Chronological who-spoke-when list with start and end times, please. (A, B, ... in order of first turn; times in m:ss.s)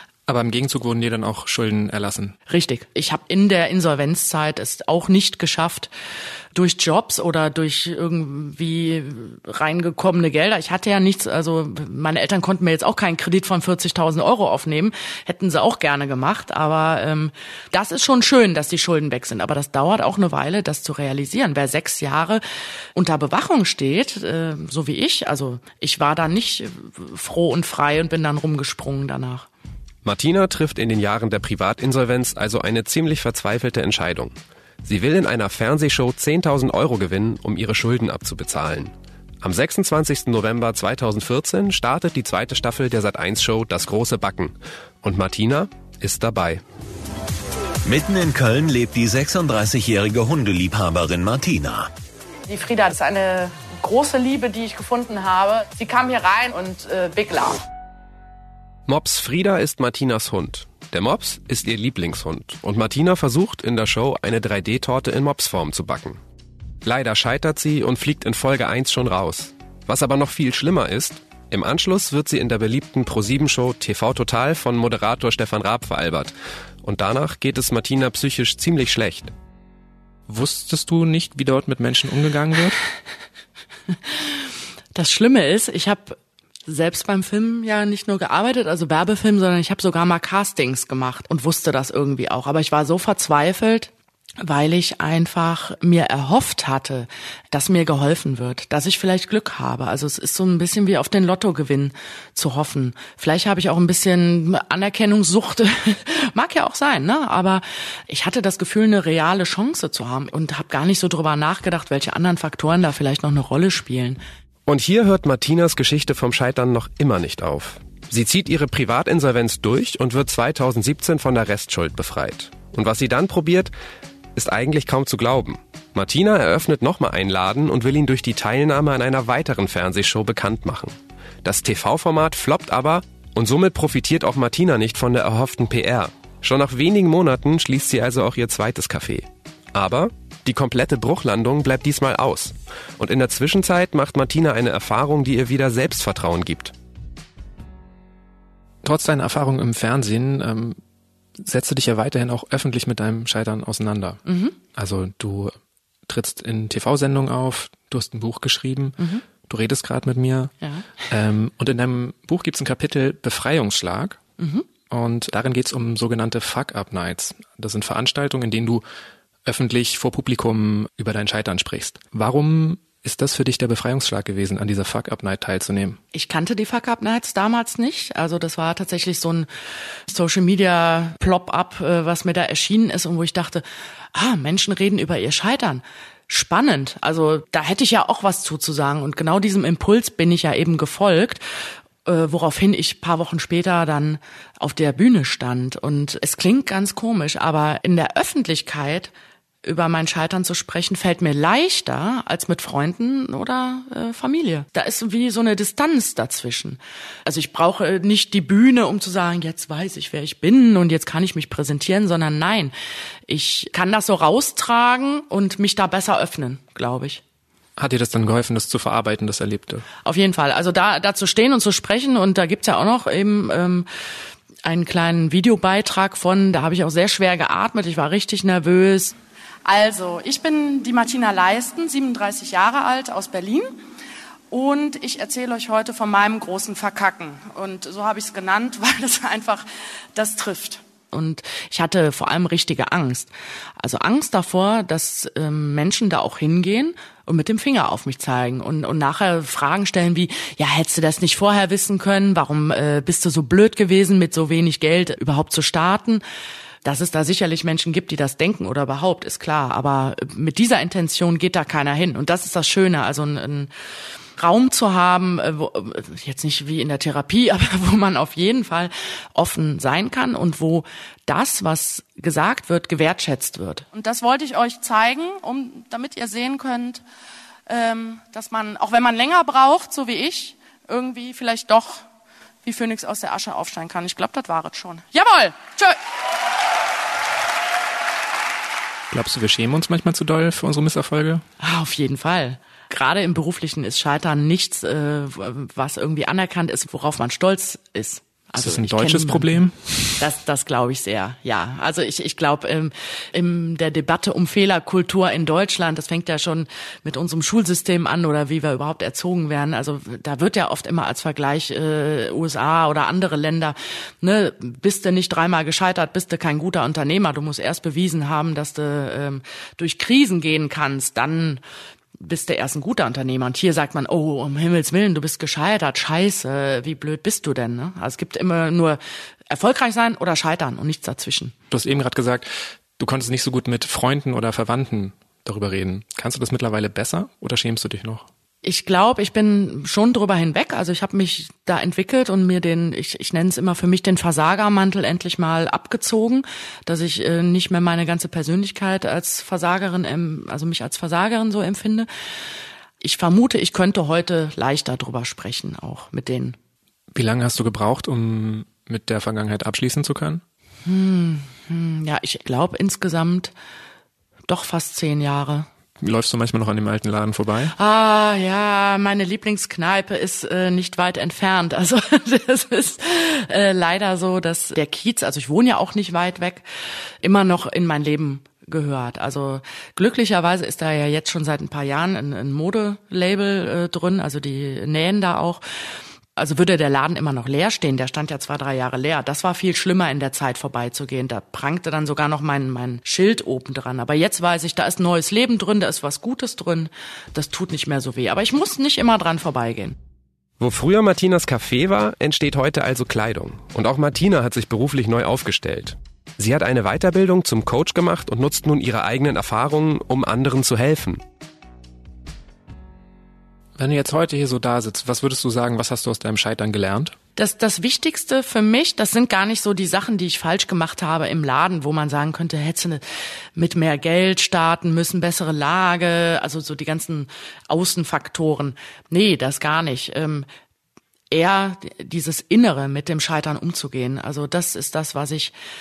0:00.3-0:02.3 A
0:02.5-0:05.9 B
0:06.5-0:22.4 B
0:22.9-0:29.5 B
0:30.0-0:46.6 C
0:47.8-0:51.9 D
0:52.5-0:57.6 B
0:58.9-1:06.2 C
1:06.8-1:19.3 C
1:20.3-1:22.8 A
1:24.1-1:24.4 B
1:24.9-1:26.2 B
1:26.7-1:33.9 B
1:34.4-1:54.2 B
1:54.7-2:03.7 C
2:04.4-2:26.7 C
2:28.8-2:30.8 A
2:31.4-2:34.2 A
2:34.2-2:34.6 B
2:34.7-2:35.5 A
2:36.1-2:40.5 A
2:39.0-2:39.2 B
2:40.6-2:41.1 B
2:41.1-2:44.2 A
2:44.4-2:44.7 B
2:44.9-2:48.8 A
2:49.4-2:56.0 A
2:56.1-2:59.5 B
3:00.1-3:11.4 B
3:12.0-3:19.1 B
3:19.6-3:32.7 B
3:33.3-3:37.2 B
3:37.8-3:39.8 A
3:40.0-3:43.9 B
3:44.6-3:53.7 B
3:54.5-4:16.2 B
4:16.8-4:23.7 B
4:24.4-4:37.0 B
4:37.7-4:42.0 B
4:42.6-4:46.0 B
4:49.1-4:51.4 A
4:51.6-4:59.6 B
4:58.6-5:00.2 A
5:00.2-5:21.6 B
5:22.2-5:29.0 B
5:29.5-5:31.5 B
5:31.7-5:38.3 A
5:38.6-5:52.1 B
5:53.0-5:56.6 B
5:57.1-6:00.4 A
6:00.8-6:03.5 B
6:04.5-6:05.7 B
6:06.0-6:07.7 A
6:07.7-6:16.6 B
6:17.2-6:25.6 B
6:26.4-6:40.0 B
6:40.6-6:51.2 C
6:53.8-6:57.1 A
6:57.4-7:03.0 B
7:03.6-7:10.4 B
7:11.3-7:15.5 B